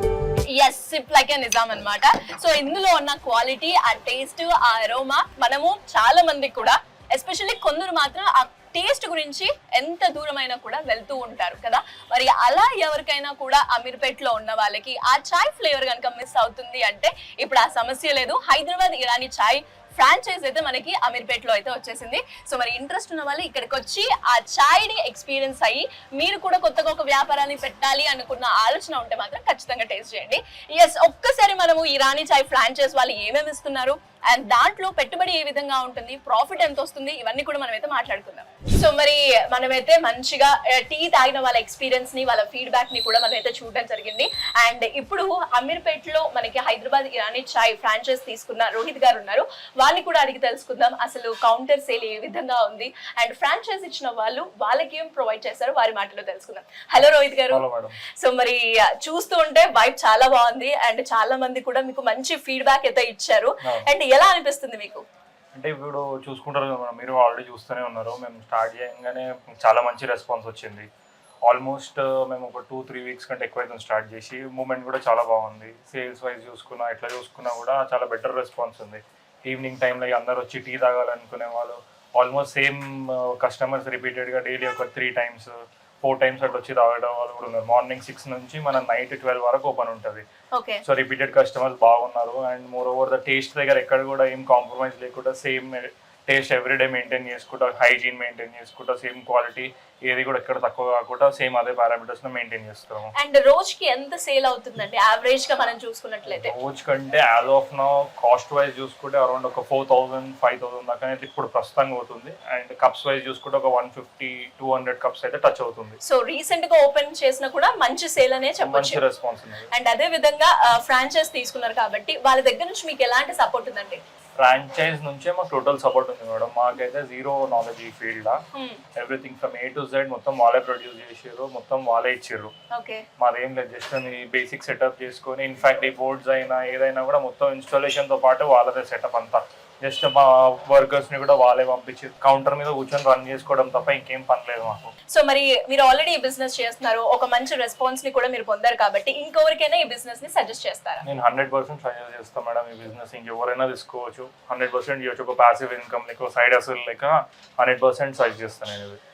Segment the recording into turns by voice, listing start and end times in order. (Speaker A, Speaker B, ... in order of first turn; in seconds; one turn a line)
Speaker A: 0.5-57.6
Speaker B: 57.5-58.0
Speaker A: 58.2-65.0
Speaker B: 65.5-70.9
Speaker B: 71.4-85.5
Speaker B: 86.0-90.2
Speaker A: 90.6-90.8
Speaker B: 90.8-103.1
Speaker A: 103.2-106.5
Speaker B: 106.3-116.0
Speaker A: 116.0-119.0
Speaker B: 118.6-119.7
Speaker A: 119.7-124.0
Speaker B: 124.4-128.4
Speaker A: 128.5-128.8
Speaker B: 129.0-132.5
Speaker A: 132.7-133.0
Speaker B: 133.2-144.9
Speaker A: 145.1-151.1
Speaker B: 151.0-159.0